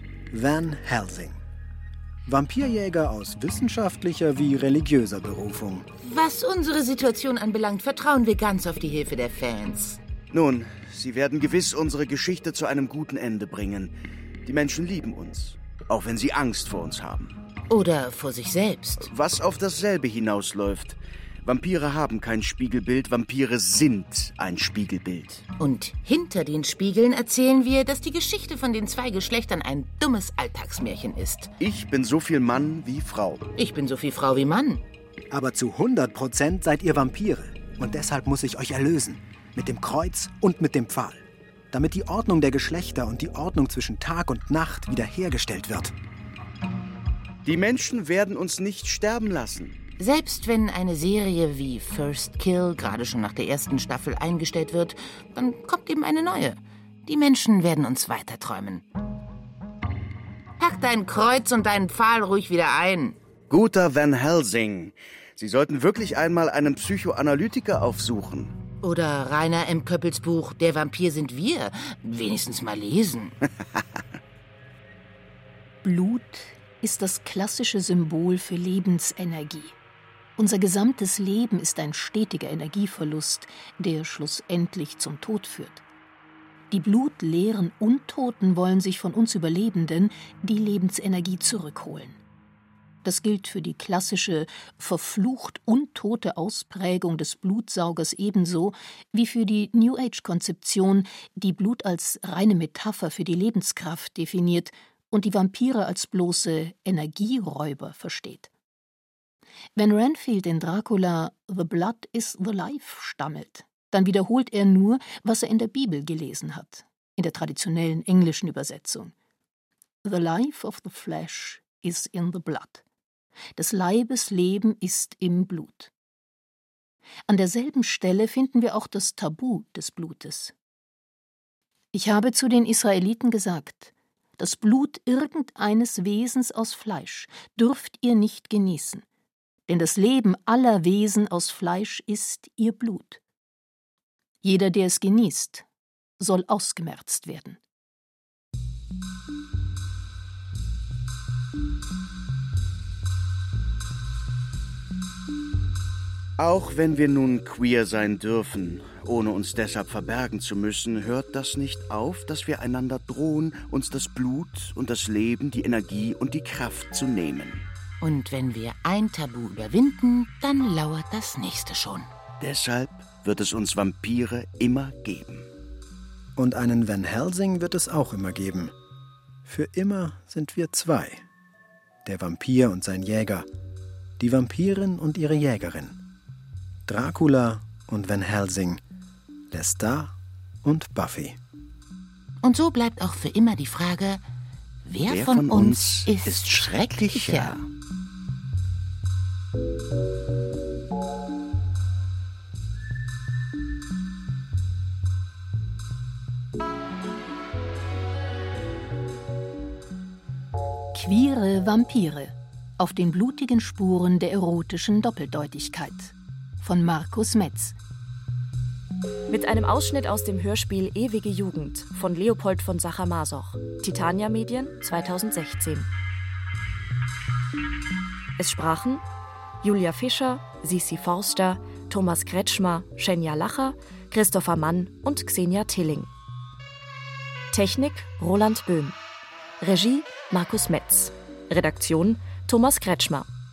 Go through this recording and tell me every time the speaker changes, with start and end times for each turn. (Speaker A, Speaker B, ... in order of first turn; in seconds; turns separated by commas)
Speaker A: 0.3-1.4, Speaker A: 2.3-5.9, Speaker B: 6.0-10.0, Speaker C: 10.3-13.9, Speaker C: 14.4-17.4, Speaker B: 17.7-19.1, Speaker C: 19.0-25.5, Speaker B: 25.6-31.5, Speaker C: 31.6-33.4, Speaker B: 33.6-34.8, Speaker A: 35.3-45.9, Speaker C: 47.5-49.8, Speaker B: 50.0-58.9, Speaker B: 60.6-63.2, Speaker C: 63.5-68.6, Speaker B: 68.8-73.4, Speaker D: 75.8-79.8, Speaker D: 80.4-85.8, Speaker D: 86.7-92.2, Speaker D: 93.0-108.5, Speaker D: 109.8-119.1, Speaker D: 120.0-122.8, Speaker D: 123.6-125.9, Speaker D: 127.3-130.5, Speaker D: 131.9-139.0, Speaker D: 139.7-143.2, Speaker D: 144.4-145.7, Speaker D: 146.2-147.6, Speaker C: 156.4-167.7, Speaker B: 168.0-172.1, Speaker C: 172.4-175.5, Speaker A: 176.4-178.7, Speaker A: 179.4-181.2, Speaker A: 182.1-183.5, Speaker A: 184.2-186.0, Speaker A: 186.9-188.8, Speaker A: 189.5-191.4, Speaker B: 192.4-194.2, Speaker B: 194.8-197.6, Speaker C: 195.1-197.7, Speaker D: 210.9-217.8, Speaker E: 219.3-225.9, Speaker E: 228.4-229.0, Speaker E: 229.6-236.1, Speaker E: 237.5-239.0, Speaker E: 239.6-243.3